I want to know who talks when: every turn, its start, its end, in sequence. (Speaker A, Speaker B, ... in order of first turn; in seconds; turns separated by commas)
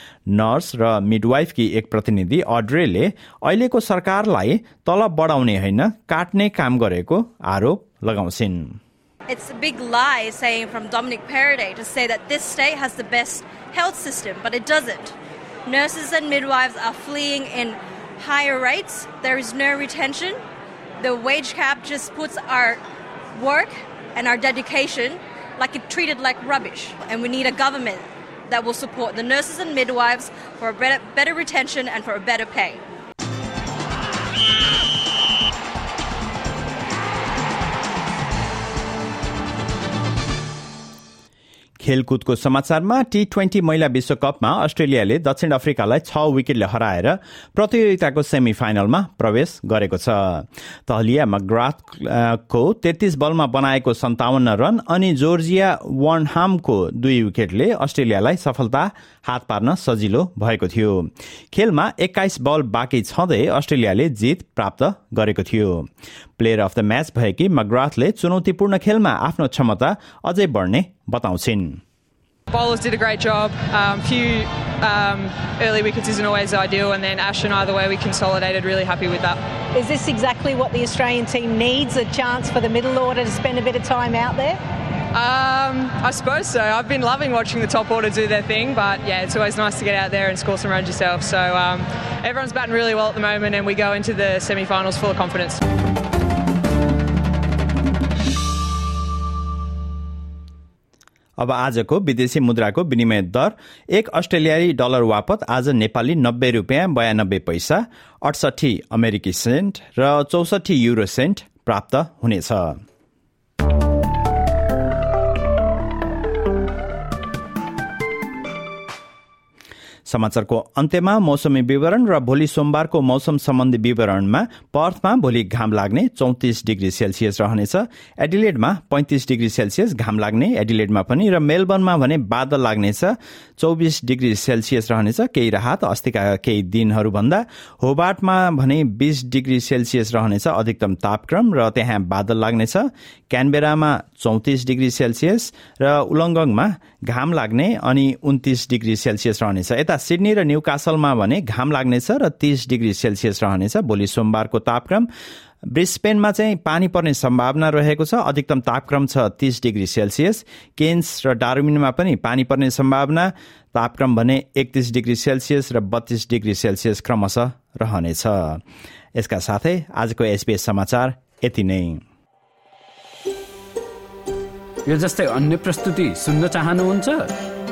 Speaker A: 0.3-8.8, Speaker B: 9.3-15.1, Speaker B: 15.7-20.4, Speaker B: 21.0-22.8, Speaker B: 23.3-32.8, Speaker A: 41.8-65.9, Speaker A: 66.4-71.8, Speaker C: 72.5-79.4, Speaker D: 79.7-84.6, Speaker C: 85.1-95.6, Speaker A: 101.4-112.8, Speaker A: 120.1-155.1, Speaker A: 155.7-168.6, Speaker A: 169.2-172.0, Speaker E: 174.8-177.3